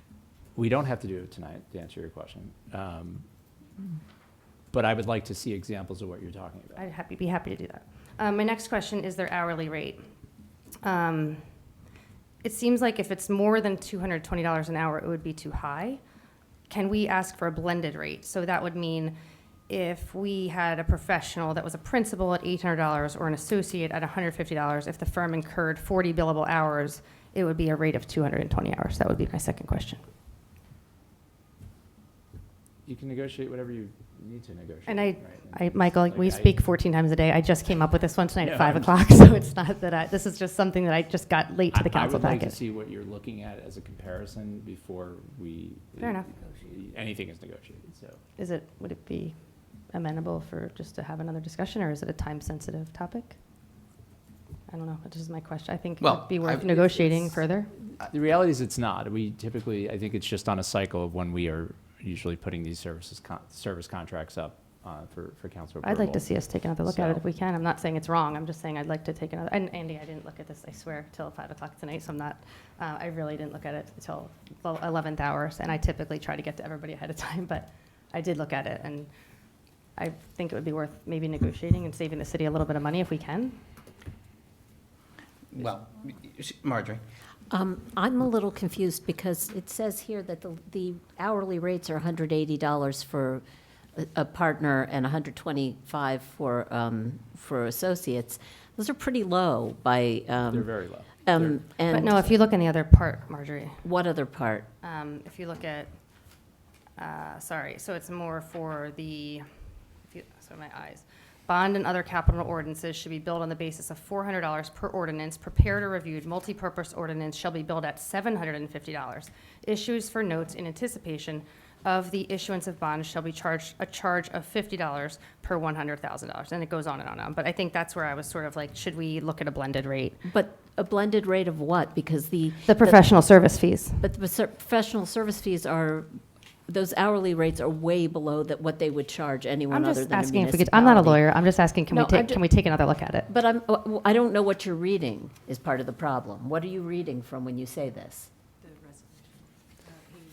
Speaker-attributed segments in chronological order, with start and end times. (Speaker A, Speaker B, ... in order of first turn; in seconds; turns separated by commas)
Speaker A: 0.5-3.2, Speaker A: 4.7-6.9, Speaker B: 6.8-10.0, Speaker B: 10.8-11.4, Speaker B: 12.4-16.0, Speaker B: 16.7-19.1, Speaker B: 19.7-30.0, Speaker A: 32.8-36.5, Speaker B: 34.9-42.6, Speaker A: 38.4-38.9, Speaker A: 41.7-48.2, Speaker B: 46.0-46.4, Speaker B: 48.4-49.3, Speaker B: 49.9-53.4, Speaker B: 54.7-57.7, Speaker C: 56.0-57.1, Speaker A: 58.0-66.3, Speaker B: 65.8-79.1, Speaker A: 66.8-67.2, Speaker B: 80.0-83.6, Speaker C: 85.5-87.0, Speaker D: 87.5-93.4, Speaker D: 94.0-102.4, Speaker A: 100.5-101.6, Speaker B: 101.9-103.8, Speaker D: 103.8-104.7, Speaker B: 104.8-105.9, Speaker B: 107.0-109.4, Speaker B: 110.1-130.2, Speaker D: 130.2-133.1, Speaker B: 132.7-134.0, Speaker D: 134.0-142.4, Speaker B: 139.7-143.3, Speaker D: 143.3-148.3